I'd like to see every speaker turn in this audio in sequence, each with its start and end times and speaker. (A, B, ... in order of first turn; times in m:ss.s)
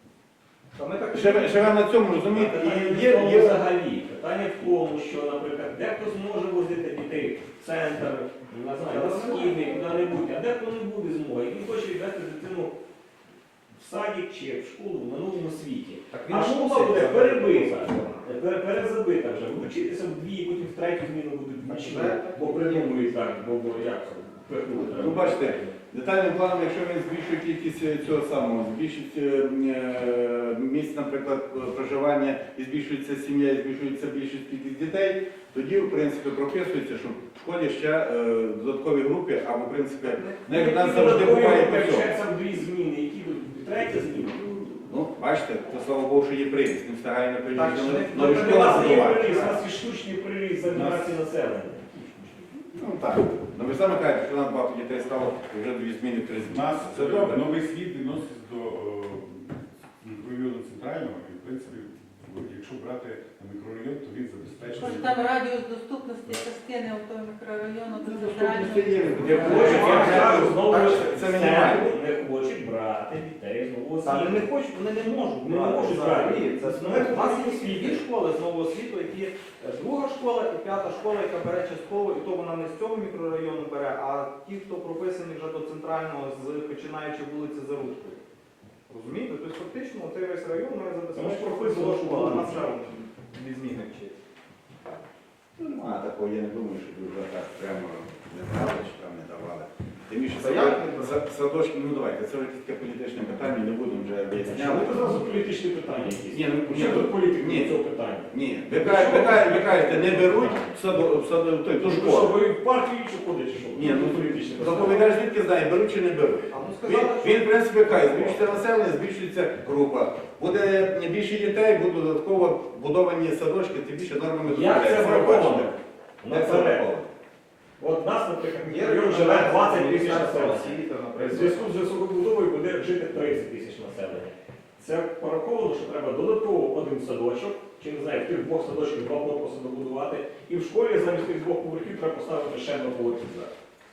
0:00.7-0:02.0 A
0:01.1-0:03.6 B
0:02.3-0:12.8 C
0:08.8-0:09.9 A
0:13.7-0:25.8 C
0:16.1-0:18.3 A
0:21.6-0:23.1 A
0:24.9-0:42.1 B
0:40.0-0:41.3 A
0:40.5-0:44.4 C
0:44.3-0:49.3 B
0:47.5-0:49.6 A
0:48.1-0:52.5 C
0:52.7-0:57.4 B
0:56.4-1:05.2 D
1:04.8-1:10.0 E
1:07.9-1:11.9 B
1:09.2-1:14.5 C
1:09.4-1:10.9 A
1:14.0-1:28.2 A
1:15.4-1:18.0 C
1:28.9-1:34.2 A
1:31.1-1:32.7 C
1:35.6-1:44.9 B
1:40.3-1:41.2 A
1:44.4-1:50.8 C
1:46.3-1:47.8 B
1:48.3-1:52.3 B
1:51.8-1:55.1 C
1:53.7-2:05.8 B
1:56.5-1:57.5 A
1:57.8-1:58.4 C
2:04.4-2:06.9 C
2:06.3-2:07.1 B
2:07.8-2:23.5 C
2:08.6-2:11.8 A